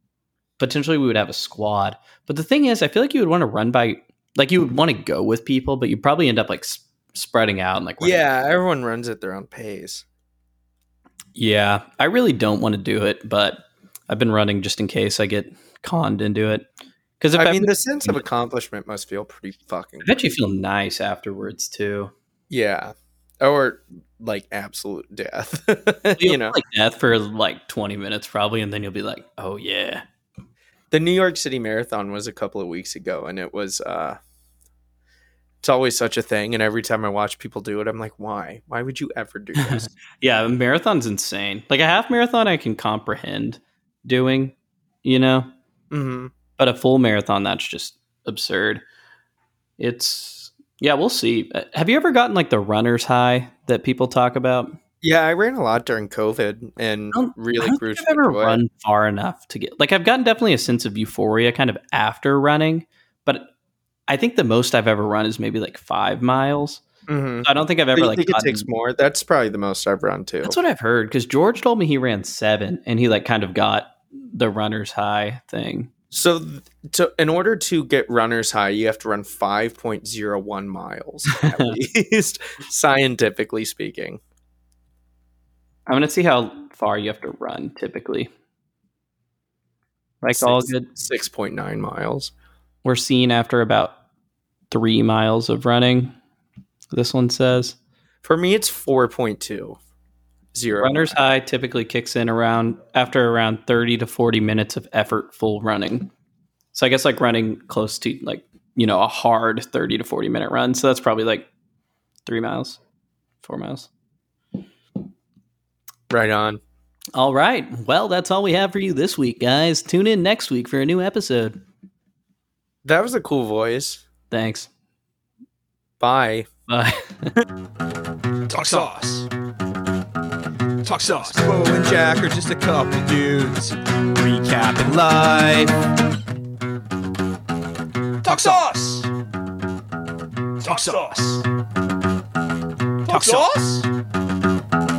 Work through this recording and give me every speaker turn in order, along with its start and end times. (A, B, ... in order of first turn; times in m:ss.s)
0:00.6-0:08.2 A
0:08.0-0:10.0 B
0:11.3-0:16.7 A
0:17.2-0:18.2 A
0:17.4-0:20.1 B
0:20.0-0:22.1 A
0:22.5-0:26.6 B
0:26.2-0:30.0 A
0:30.9-0:34.2 B
0:35.6-0:39.9 B
0:39.6-0:45.5 A
0:45.9-0:46.3 B
0:46.6-0:48.8 A
0:49.8-0:54.7 A
0:55.0-0:58.6 B
0:57.1-1:03.5 A
1:04.1-1:06.8 A
1:07.1-1:10.6 B
1:07.4-1:08.7 A
1:10.4-1:15.9 A
1:16.1-1:24.2 B
1:21.4-1:21.7 A
1:25.9-1:28.3 A
1:30.2-1:30.9 A
1:30.3-1:32.3 B
1:32.8-1:34.0 A
1:34.7-1:36.1 A
1:36.9-1:37.8 A
1:38.2-1:39.8 B
1:40.5-1:41.2 B
1:40.8-1:46.1 A
1:46.7-1:51.5 A
1:52.2-1:52.8 A
1:53.4-1:53.9 A
1:56.1-1:56.6 B
1:57.1-2:01.6 A
2:02.8-2:04.0 B
2:04.3-2:04.7 A
2:06.0-2:06.5 B
2:06.7-2:07.4 A
2:08.5-2:09.3 C
2:10.8-2:15.7 C
2:11.3-2:12.3 B
2:18.2-2:19.1 C
2:20.6-2:21.4 C
2:23.0-2:23.9 C